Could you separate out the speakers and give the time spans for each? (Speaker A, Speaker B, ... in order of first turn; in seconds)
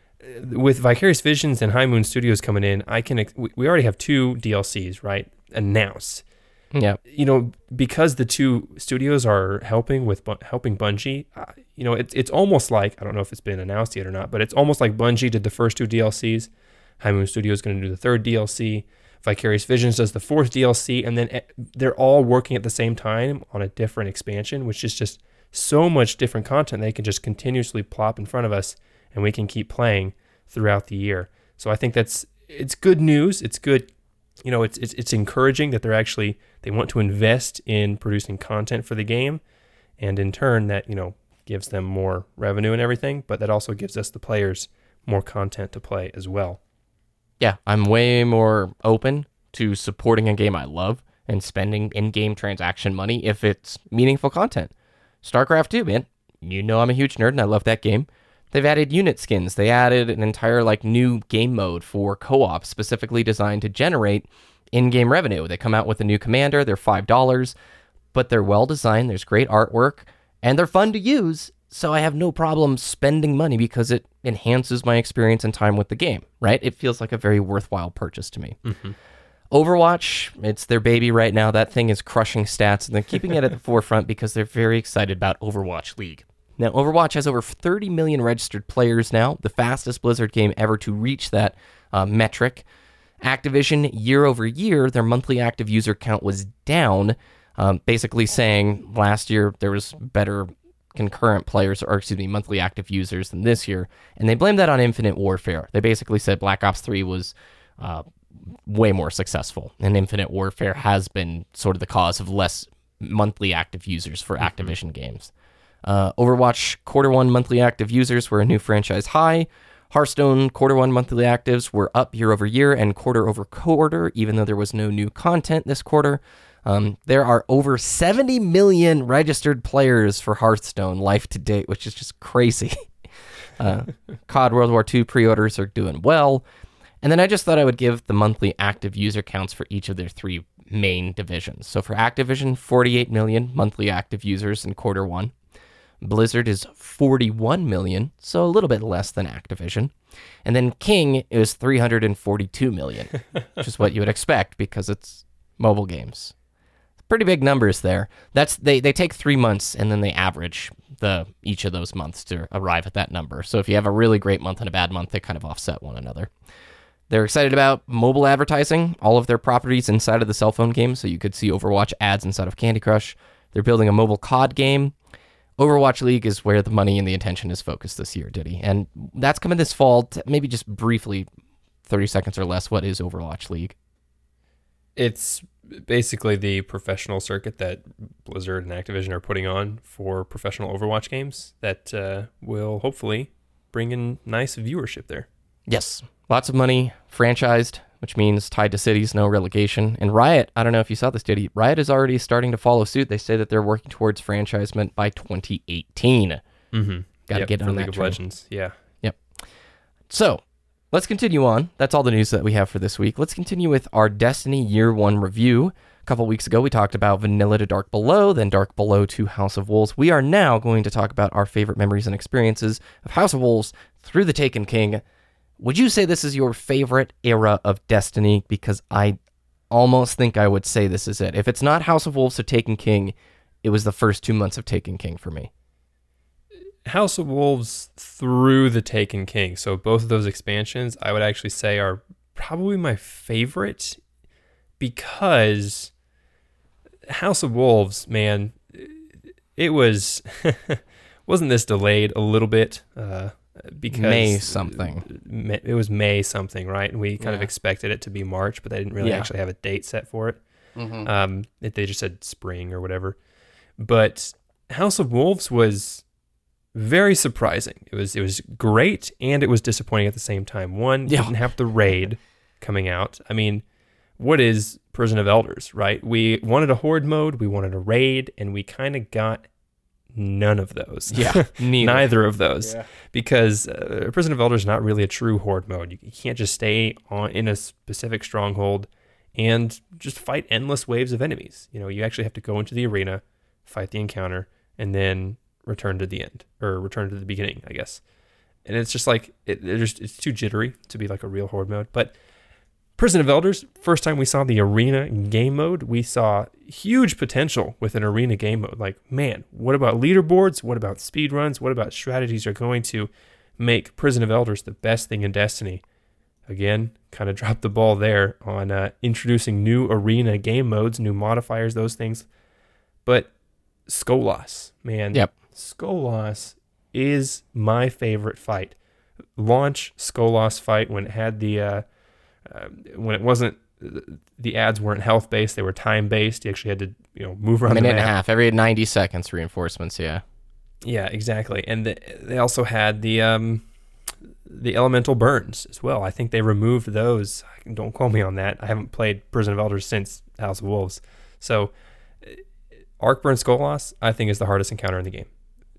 Speaker A: 0.2-6.2, 7.1-33.9, 34.4-39.4, 40.0-46.6, 78.7-79.0, 114.4-114.7, 185.0-195.3, 206.7-208.8, 236.8-244.0, 244.8-245.9, 247.1-249.0, 249.6-263.2, 263.8-266.0, 266.7-273.6, 274.2-279.5, 280.1-298.0, 298.6-302.1, 303.0-315.8, 316.5-322.3, 323.1-323.3, 323.9-328.8, 329.4-331.8, 332.4-338.1, 340.8-343.6, 344.5-351.7, 353.0-355.3
Speaker B: 6.7-7.0, 47.4-54.7, 55.2-67.5, 68.1-78.6, 79.5-92.6, 93.2-108.0, 108.7-115.3, 115.8-132.8, 133.6-136.4, 137.0-145.3, 146.0-149.9, 150.4-156.3, 157.1-166.3, 167.1-174.9, 175.6-181.3, 181.9-183.8, 195.7-206.4, 207.3-208.2, 210.1-210.4, 210.9-225.0, 225.6-229.2, 229.7-235.5, 253.9-255.1, 257.2-257.5, 259.0-259.3, 281.1-282.1, 337.7-340.2